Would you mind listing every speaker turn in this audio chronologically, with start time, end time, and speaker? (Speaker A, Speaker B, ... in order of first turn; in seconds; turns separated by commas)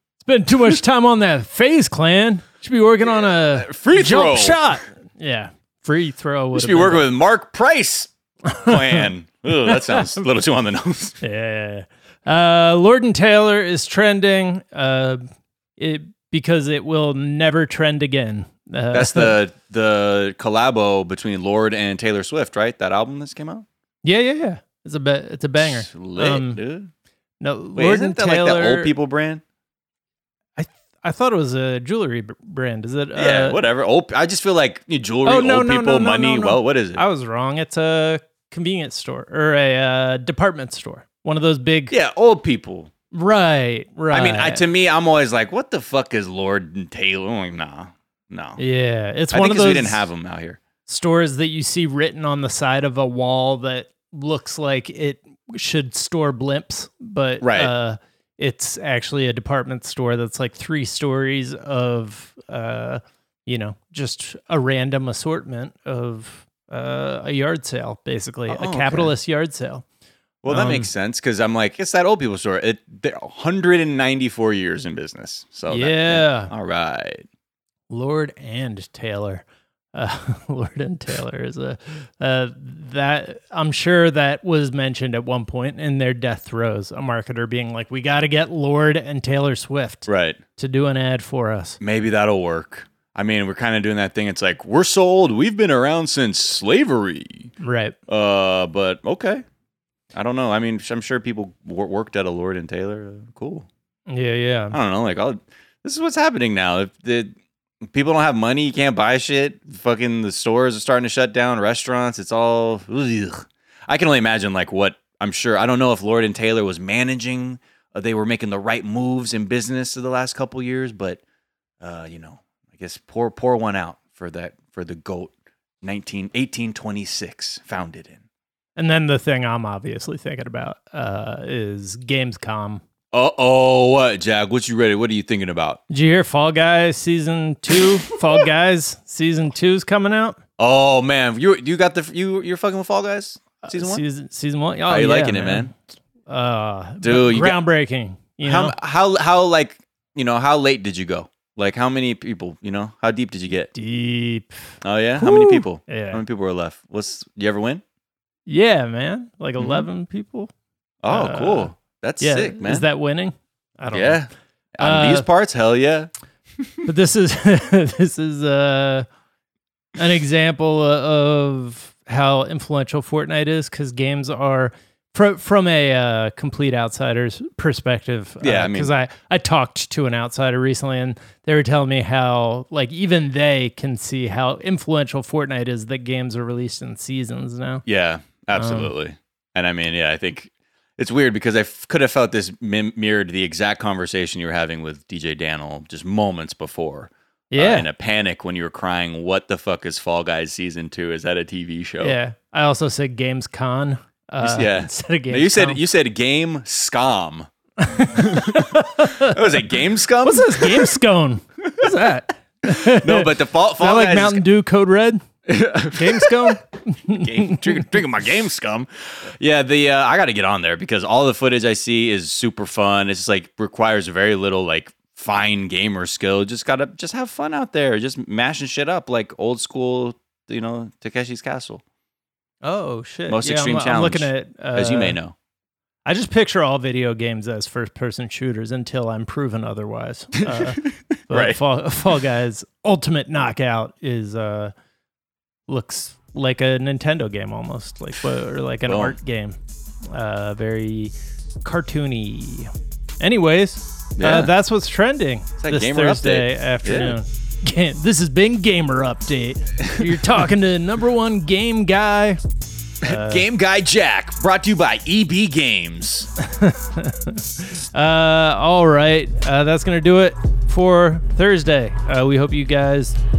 Speaker A: 0.2-7.1, Speaker B: 3.1-4.6, Speaker B: 6.5-11.2, Speaker A: 8.5-9.1, Speaker A: 9.7-10.1, Speaker A: 11.2-15.2, Speaker A: 15.8-19.4, Speaker B: 18.9-23.6, Speaker A: 24.0-26.6, Speaker B: 25.6-26.9, Speaker A: 27.4-28.9, Speaker B: 27.7-29.4, Speaker A: 30.6-33.6, Speaker B: 33.1-37.0, Speaker A: 35.2-41.9, Speaker B: 41.9-42.9, Speaker A: 43.1-44.6, Speaker B: 44.1-48.6, Speaker A: 48.6-50.1, Speaker B: 49.3-50.6, Speaker A: 50.8-69.8, Speaker B: 57.4-57.7, Speaker B: 68.5-69.1, Speaker B: 70.4-77.3, Speaker A: 70.5-70.9, Speaker A: 75.7-76.5, Speaker A: 77.9-91.8, Speaker B: 90.1-90.4, Speaker B: 91.8-97.5, Speaker A: 97.6-98.0, Speaker B: 98.1-99.4, Speaker B: 100.1-103.7, Speaker A: 104.1-104.8, Speaker B: 104.7-107.3, Speaker B: 107.8-121.2, Speaker B: 121.8-128.2, Speaker A: 128.8-132.8, Speaker B: 133.1-135.8, Speaker A: 135.9-140.4, Speaker B: 140.6-144.0, Speaker A: 143.6-145.7, Speaker B: 144.9-145.7, Speaker A: 146.3-148.8, Speaker B: 147.0-147.6, Speaker B: 148.4-153.7, Speaker A: 153.7-154.6, Speaker B: 154.8-157.8, Speaker A: 155.2-156.2, Speaker A: 158.5-160.5, Speaker B: 159.6-159.9, Speaker B: 161.0-162.9, Speaker A: 161.1-164.2, Speaker B: 163.9-166.1, Speaker A: 164.8-165.3, Speaker A: 166.8-169.1, Speaker A: 169.9-187.8, Speaker B: 178.4-178.9, Speaker B: 187.8-202.2, Speaker A: 188.5-188.9, Speaker A: 197.5-197.9, Speaker A: 202.0-205.8, Speaker B: 204.4-207.5, Speaker A: 207.8-215.2, Speaker B: 208.1-210.9, Speaker B: 211.7-211.9, Speaker B: 212.7-214.4, Speaker B: 215.5-216.6, Speaker A: 215.9-217.9, Speaker B: 217.1-231.8, Speaker A: 232.6-235.2, Speaker B: 233.3-235.3, Speaker A: 236.0-244.7, Speaker B: 240.4-241.6, Speaker A: 245.7-249.6, Speaker B: 248.9-249.2, Speaker A: 250.1-251.1, Speaker A: 251.6-262.4, Speaker B: 254.2-254.5, Speaker B: 255.6-257.1, Speaker B: 260.0-260.4, Speaker B: 263.0-266.3, Speaker A: 263.0-263.4, Speaker A: 266.4-273.2